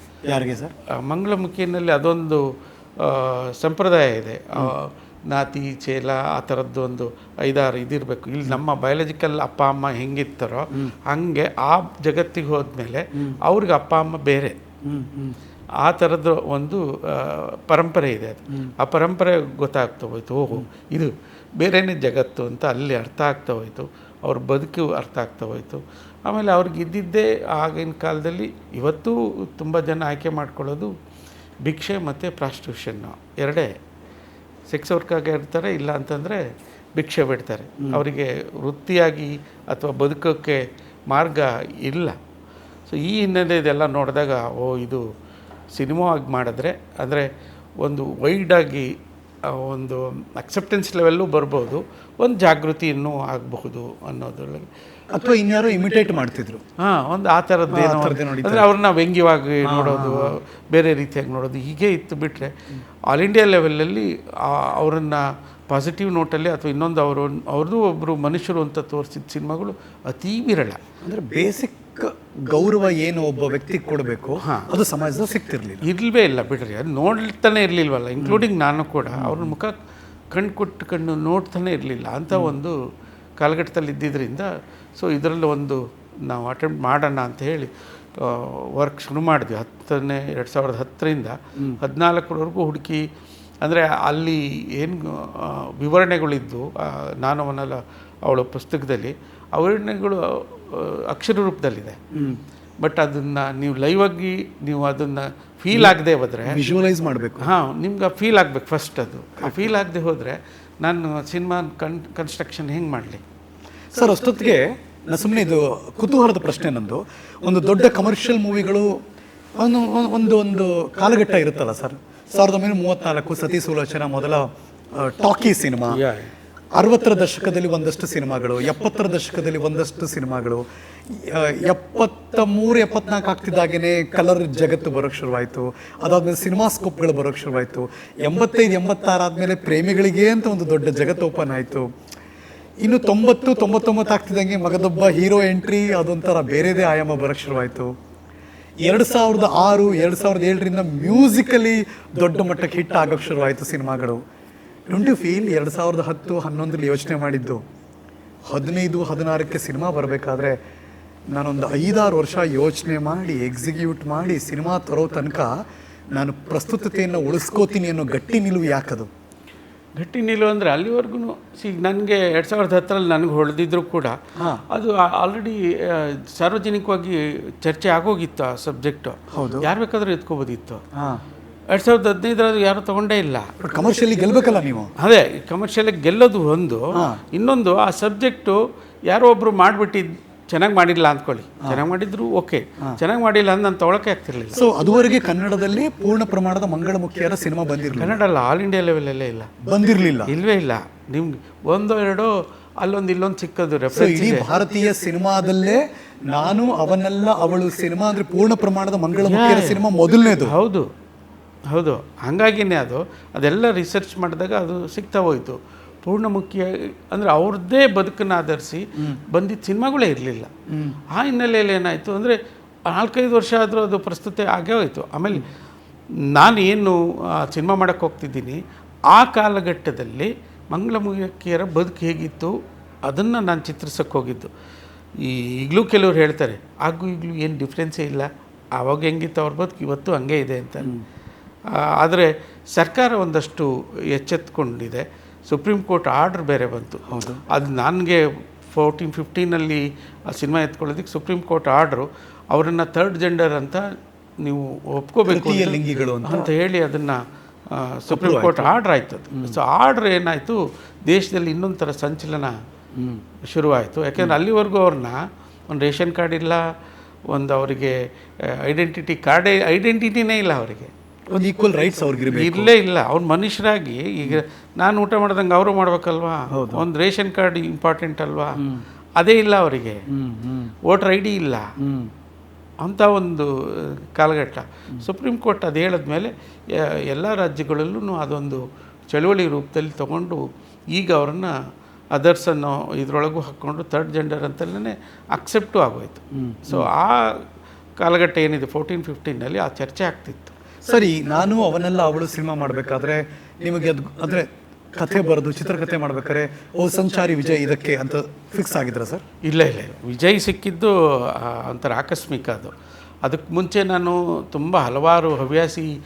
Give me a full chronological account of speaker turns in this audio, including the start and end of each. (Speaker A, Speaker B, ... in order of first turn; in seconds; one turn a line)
Speaker A: 0.2-0.7
Speaker B: 0.9-2.4
Speaker B: 3.0-14.6
Speaker A: 14.8-15.3
Speaker B: 15.8-30.9
Speaker B: 31.6-33.7
Speaker B: 34.7-36.4
Speaker B: 37.0-42.1
Speaker B: 42.9-45.0
Speaker B: 45.7-47.3
Speaker B: 47.8-48.9
Speaker B: 49.4-54.7
Speaker A: 55.1-56.6
Speaker B: 56.8-62.5
Speaker A: 57.7-58.7
Speaker A: 59.6-60.3
Speaker B: 63.1-70.8
Speaker A: 71.0-75.8
Speaker B: 74.4-74.7
Speaker B: 75.8-79.7
Speaker A: 79.1-79.5
Speaker B: 80.3-82.7
Speaker B: 83.4-93.0
Speaker B: 93.6-102.0
Speaker A: 102.1-102.4
Speaker B: 102.8-106.6
Speaker A: 106.5-107.5
Speaker B: 107.4-113.2
Speaker A: 109.4-109.7
Speaker A: 113.9-118.9
Speaker A: 119.6-126.0
Speaker B: 125.9-126.3
Speaker A: 126.7-141.9
Speaker A: 142.8-147.9
Speaker A: 148.8-154.2
Speaker A: 154.9-157.6
Speaker A: 158.4-160.6
Speaker A: 161.3-165.6
Speaker A: 166.1-169.1
Speaker B: 170.0-174.2
Speaker A: 174.4-174.6
Speaker B: 174.7-180.8
Speaker A: 179.3-179.7
Speaker A: 180.9-181.2
Speaker B: 181.7-183.5
Speaker A: 183.6-184.9
Speaker B: 185.0-194.6
Speaker A: 186.9-187.2
Speaker A: 194.5-198.2
Speaker B: 197.9-199.5
Speaker A: 199.6-200.3
Speaker B: 200.2-204.5
Speaker A: 203.9-210.5
Speaker B: 209.2-209.8
Speaker B: 210.4-210.9
Speaker B: 211.7-220.5
Speaker A: 220.7-221.0
Speaker B: 221.1-225.4
Speaker B: 226.3-228.6
Speaker B: 229.1-232.5
Speaker B: 233.1-234.5
Speaker B: 235.2-240.9
Speaker B: 241.7-253.8
Speaker A: 247.1-247.4
Speaker B: 254.4-257.2
Speaker A: 255.3-256.5
Speaker B: 257.7-262.5
Speaker A: 258.1-258.7
Speaker A: 259.3-259.6
Speaker A: 262.9-263.2
Speaker B: 263.4-266.6
Speaker B: 267.3-270.9
Speaker A: 271.3-272.7
Speaker B: 272.3-278.6
Speaker A: 276.5-276.8
Speaker B: 279.2-280.0
Speaker A: 280.1-280.7
Speaker B: 280.9-281.7
Speaker A: 281.8-282.1
Speaker B: 282.8-291.5
Speaker B: 292.1-297.4
Speaker A: 296.3-296.9
Speaker B: 298.0-300.5
Speaker A: 300.9-309.2
Speaker B: 309.4-312.7
Speaker B: 313.2-315.9